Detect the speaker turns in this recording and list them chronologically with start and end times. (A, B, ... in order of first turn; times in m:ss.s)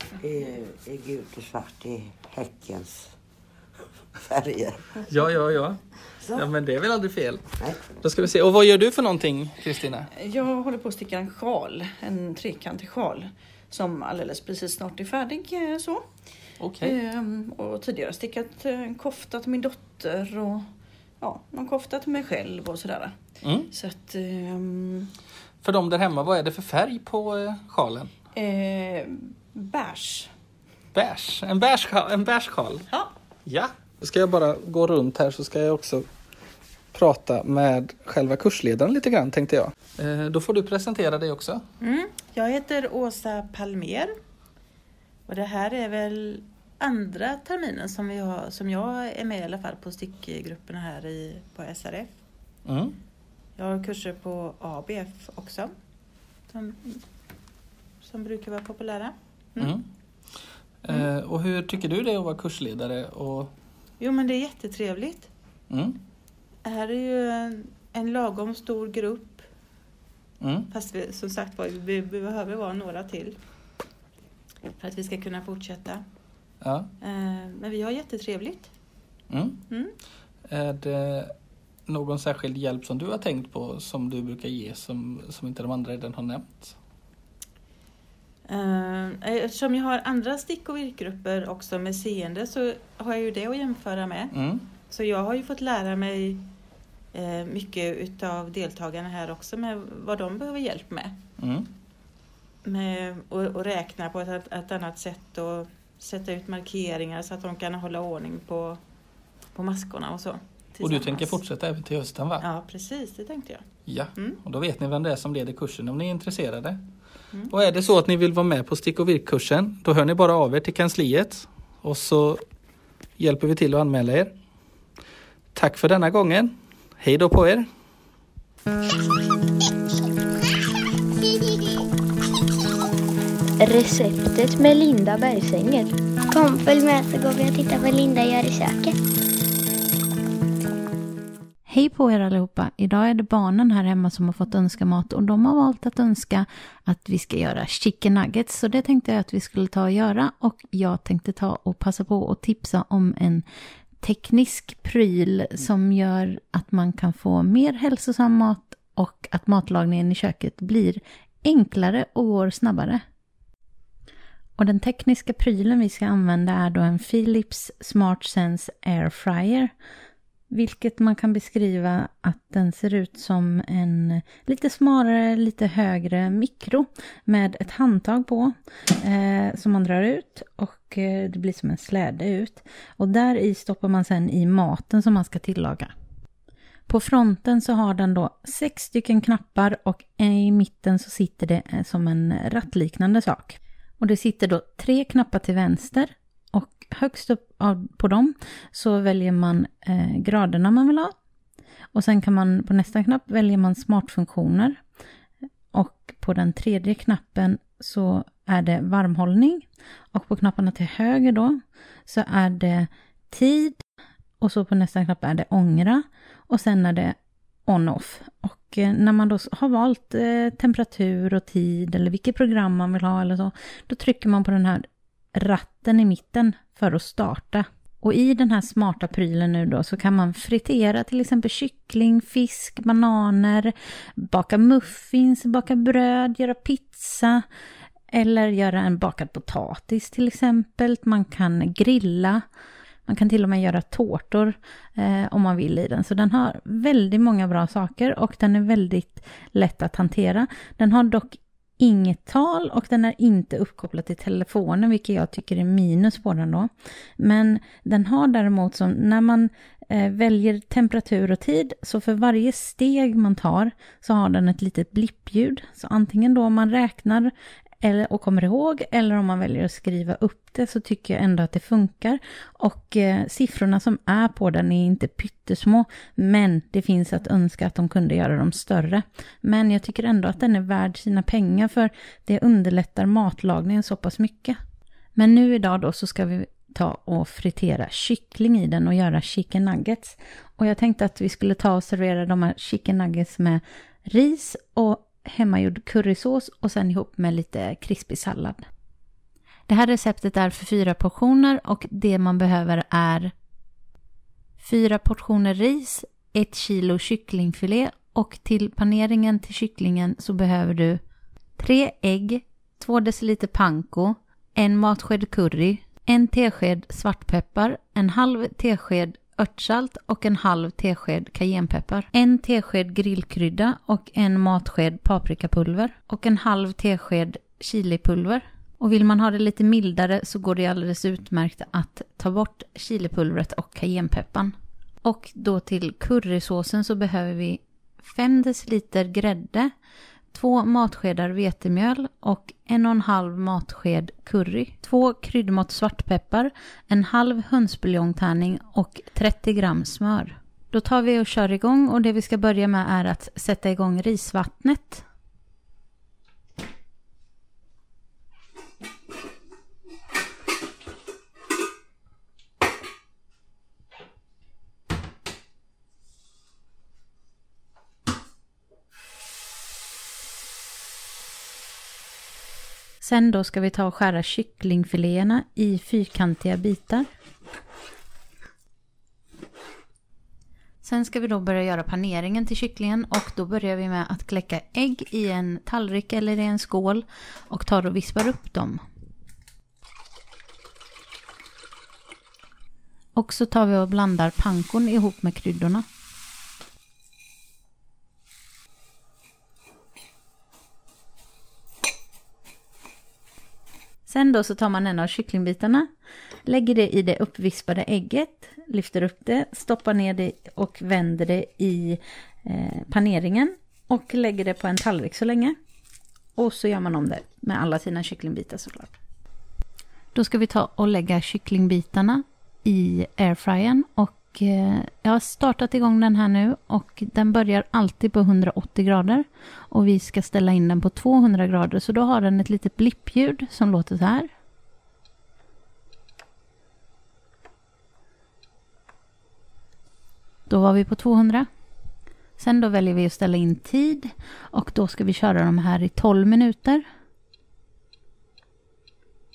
0:00.2-0:03.1 A
0:04.2-0:05.0 A
0:05.1-0:05.8 B
0:06.3-0:07.4 B
0:08.0-0:10.0 B
0:10.1-0:16.0 C
0:16.6-0:17.0 B
0:16.8-0:20.7 C
0:21.2-0:25.1 C
0:23.4-0:23.7 B
0:25.6-0:28.1 B
0:28.3-0:30.3 C
0:30.9-0:32.8 B
0:33.5-0:36.0 B
0:36.9-0:41.6 B
0:41.8-0:44.1 D
0:45.3-0:52.1 D
0:52.6-0:53.0 B
0:53.6-0:55.7 D
0:56.5-0:57.0 D
0:58.0-0:59.8 D
0:59.6-0:59.8 B
1:00.8-1:03.5 B
1:04.0-1:05.3 D
1:05.7-1:06.0 B
1:06.6-1:09.4 D
1:10.4-1:10.7 B
1:10.7-1:13.4 D
1:14.8-1:16.0 D
1:16.6-1:16.9 B
1:17.0-1:18.7 D
1:19.3-1:19.6 B
1:20.5-1:21.3 B
1:21.9-1:26.7 B
1:28.5-1:34.3 D
1:34.3-1:34.6 B
1:34.9-1:36.5 D
1:37.1-1:41.2 D
1:41.4-1:41.7 B
1:42.6-1:48.8 D
1:49.5-1:51.4 D
1:50.8-1:52.4 B
1:52.4-1:53.6 D
1:53.9-1:56.8 B
1:57.5-2:02.4 B
2:03.2-2:04.3 B
2:05.5-2:07.7 B
2:11.2-2:11.9 E
2:13.6-2:19.0 E
2:21.7-2:33.4 F
2:34.0-2:43.0 F
2:44.6-2:49.7 F
2:50.5-3:05.9 F
3:06.9-3:21.1 F
3:21.9-3:24.8 F
3:25.7-3:33.8 F
3:34.4-3:57.4 F
3:58.1-4:02.4 F
4:03.0-4:27.3 F
4:27.8-4:44.6 F
4:45.2-4:58.6 F
4:59.7-5:03.3 F
5:04.6-5:11.0 F
5:11.6-5:39.7 F
5:40.3-5:55.0 F
6:13.0-6:17.1 F
6:20.8-6:28.8 F
6:33.1-6:35.8 F
6:44.0-6:45.9 F
6:46.4-6:55.6 F
6:56.4-6:59.0 F
7:00.1-7:14.3 F
7:20.5-7:21.5 F
7:22.4-7:26.8 F